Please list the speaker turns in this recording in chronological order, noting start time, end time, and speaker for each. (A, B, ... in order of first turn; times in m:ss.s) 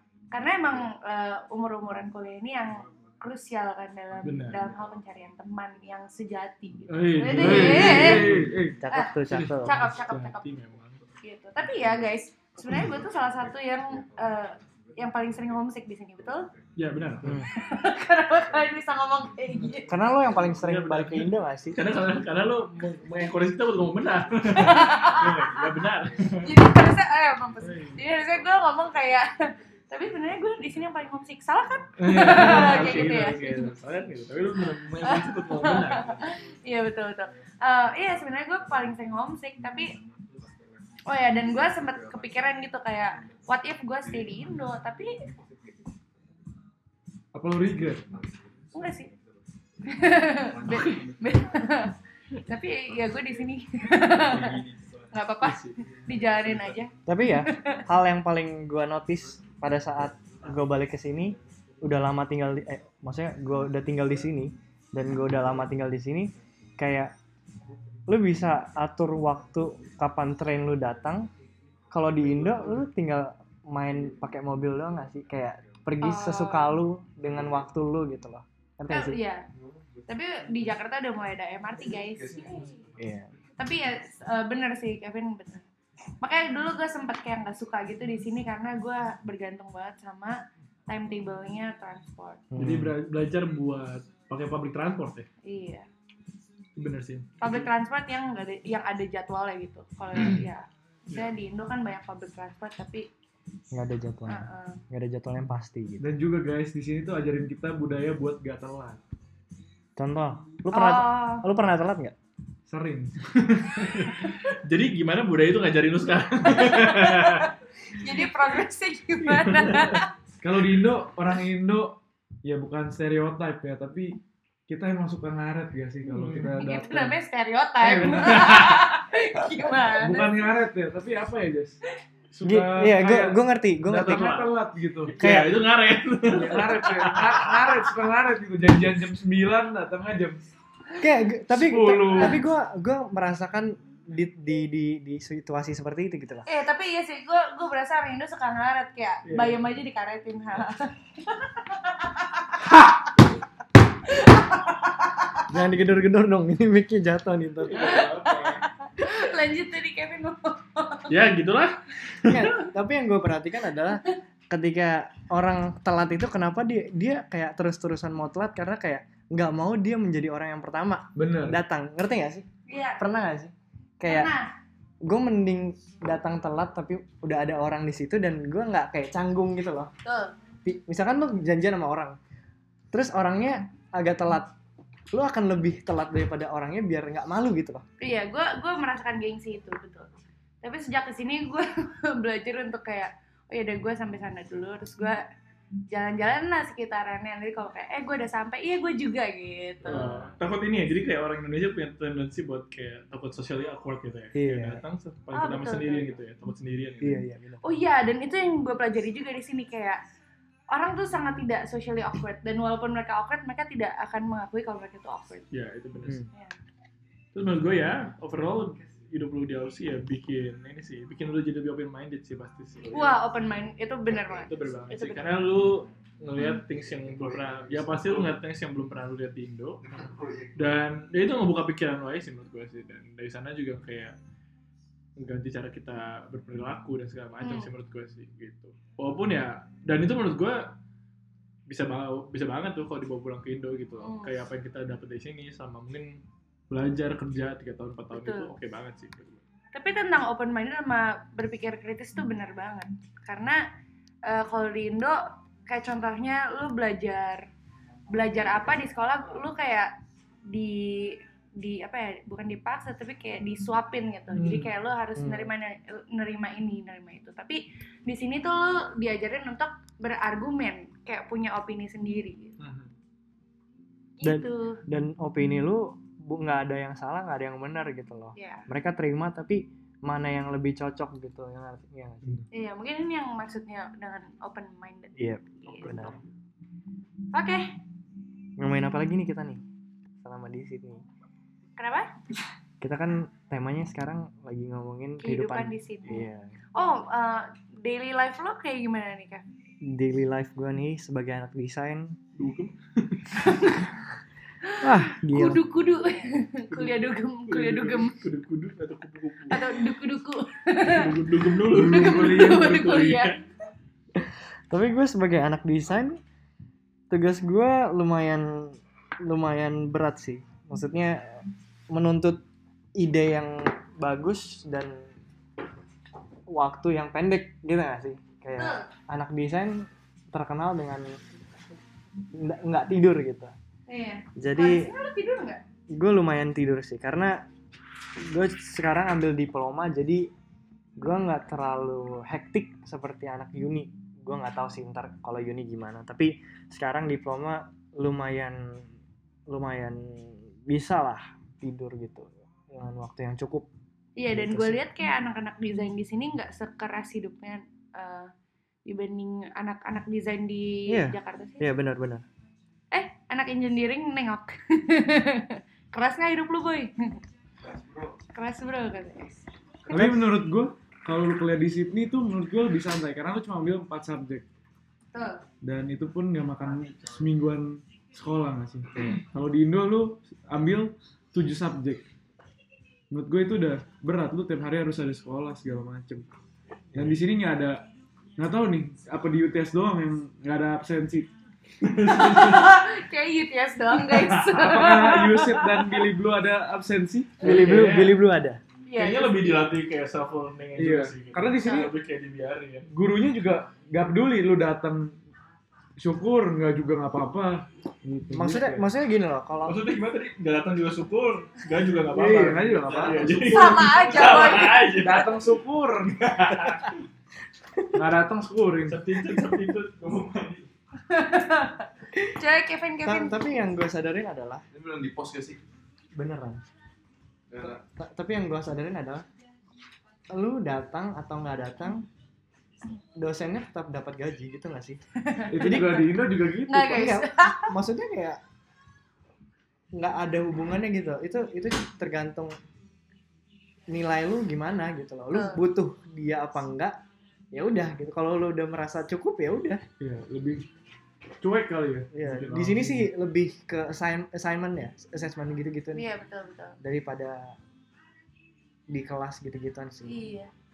0:00.3-0:08.3 A
0:04.2-0:04.6 B
0:06.9-0:08.5 B
0:07.3-0:08.8 C
0:07.7-0:09.7 D
0:08.9-0:10.5 A
0:09.3-0:11.0 B
0:11.2-0:16.5 A
0:16.8-0:17.4 B
0:17.2-0:17.5 D
0:17.4-0:20.0 A
0:19.9-0:21.8 D
0:20.5-0:26.5 B
0:24.5-0:25.7 A
0:26.4-0:33.7 A
0:27.6-0:28.0 B
0:32.0-0:36.3 B
0:35.0-0:40.0 A
0:41.0-0:45.1 A
0:47.3-0:48.1 C
0:48.7-0:49.1 A
0:49.8-0:57.8 A
0:54.2-0:54.7 B
0:55.4-0:55.8 B
0:57.0-1:07.1 D
1:08.1-1:11.3 D
1:11.9-1:19.2 D
1:16.0-1:16.8 A
1:18.9-1:19.4 A
1:20.1-1:22.8 A
1:23.0-1:23.3 D
1:23.6-1:25.6 A
1:26.2-1:32.4 A
1:32.5-1:33.0 D
1:32.6-1:35.3 B
1:35.4-1:35.9 A
1:36.8-1:37.5 B
1:37.4-1:43.1 A
1:43.7-1:46.1 D
1:44.3-1:44.8 A
1:46.0-1:49.0 C
1:50.0-1:52.1 D
1:50.7-1:51.4 A
1:52.7-1:53.7 C
1:53.7-1:57.5 B
1:56.5-2:00.1 A
1:59.2-2:00.0 B
2:00.4-2:07.2 C
2:06.1-2:06.8 B
2:06.6-2:10.4 A
2:07.8-2:08.6 C
2:08.2-2:08.9 B
2:09.9-2:11.8 C
2:12.3-2:15.2 C
2:12.4-2:14.5 D
2:14.0-2:17.8 B
2:15.2-2:15.6 D
2:16.3-2:20.4 C
2:21.0-2:26.5 D
2:21.5-2:22.4 C
2:26.5-2:32.3 A
2:35.5-2:38.0 D
2:37.6-2:38.6 B
2:37.7-2:41.1 A
2:41.1-2:42.6 B
2:42.2-2:52.5 D
2:51.2-2:51.6 C
2:52.7-2:53.0 A
2:53.0-2:54.3 D
2:54.1-2:54.5 A
2:55.0-2:59.9 D
3:00.0-3:00.3 A
3:00.6-3:02.2 D
3:02.9-3:04.5 D
3:05.1-3:07.8 D
3:08.0-3:10.1 A
3:10.6-3:15.2 A
3:15.9-3:20.1 A
3:19.8-3:27.2 B
3:24.3-3:24.8 D
3:25.3-3:26.1 A
3:27.0-3:27.6 D
3:27.6-3:30.0 A
3:30.7-3:35.4 A
3:35.5-3:36.2 B
3:37.3-3:43.2 B
3:42.9-3:45.4 A
3:44.1-3:50.0 B
3:50.0-3:50.5 E
3:50.5-3:54.1 B
3:55.2-4:00.7 B
3:57.4-3:57.7 A
4:01.7-4:09.4 B
4:04.0-4:04.4 A
4:08.1-4:08.5 A
4:09.7-4:13.6 A
4:14.2-4:17.4 A
4:18.1-4:19.9 A
4:20.4-4:32.5 A
4:24.3-4:24.7 B
4:25.2-4:25.5 D
4:32.6-4:32.9 B
4:34.2-4:34.8 A
4:34.2-4:42.4 D
4:38.4-4:38.7 A
4:42.5-4:46.1 A
4:45.2-4:46.2 D
4:45.8-4:46.2 B
4:47.3-4:47.7 A
4:48.6-4:49.6 D
4:50.2-4:51.0 D
4:51.8-4:52.1 A
4:52.8-4:56.5 D
4:55.2-4:59.4 A
4:59.8-5:02.2 D
5:02.4-5:03.8 B
5:03.4-5:03.7 A
5:04.6-5:08.2 A
5:04.8-5:05.6 D
5:06.7-5:09.7 B
5:09.5-5:11.1 A
5:10.8-5:13.3 B
5:11.7-5:13.0 C
5:11.7-5:13.4 A
5:14.1-5:16.2 D
5:17.1-5:22.4 D
5:23.0-5:25.1 D
5:26.5-5:31.2 D
5:28.6-5:28.9 A
5:32.3-5:33.5 D
5:33.9-5:35.6 A
5:34.4-5:34.9 D
5:35.9-5:37.4 D
5:38.2-5:40.3 D
5:41.0-5:48.9 D
5:49.5-5:53.7 D
5:54.2-5:58.3 A
5:54.3-5:54.8 D
5:58.8-6:01.7 A
6:00.9-6:02.2 D
6:02.9-6:07.2 A
6:08.3-6:09.4 A
6:09.9-6:14.4 C
6:09.9-6:10.3 D
6:15.1-6:15.4 A
6:15.6-6:22.0 C
6:23.1-6:26.3 C
6:26.9-6:27.8 C
6:28.4-6:31.3 C
6:31.8-6:32.7 B
6:32.1-6:36.0 A
6:34.0-6:34.3 B
6:34.4-6:37.5 C
6:37.4-6:38.2 B
6:37.4-6:38.6 D
6:38.9-6:39.4 A
6:39.0-6:42.9 B
6:40.8-6:41.9 C
6:41.6-6:41.9 A
6:42.9-6:45.1 C
6:46.0-6:48.8 C
6:48.3-6:49.8 D
6:49.6-6:55.5 B
6:52.1-6:56.6 C
6:52.6-6:53.7 E
6:53.5-6:55.0 A
6:56.1-6:56.9 B
6:57.9-6:59.0 C
6:58.9-7:00.7 B
7:01.1-7:03.4 A
7:03.0-7:04.6 D
7:04.7-7:05.6 E
7:06.1-7:06.6 D
7:07.5-7:07.8 E
7:07.6-7:09.2 D
7:10.3-7:12.1 D
7:13.2-7:15.0 D
7:15.2-7:16.0 A
7:15.5-7:17.0 C
7:15.6-7:16.2 D
7:16.7-7:17.7 A
7:16.9-7:18.4 D
7:19.9-7:22.5 D
7:23.9-7:27.0 D
7:25.3-7:25.6 A
7:27.5-7:29.8 D
7:30.0-7:30.6 C
7:31.4-7:32.1 C
7:32.1-7:36.0 D
7:32.2-7:33.0 B
7:35.9-7:36.8 A
7:36.8-7:37.6 D
7:38.9-7:40.1 D
7:40.0-7:40.5 A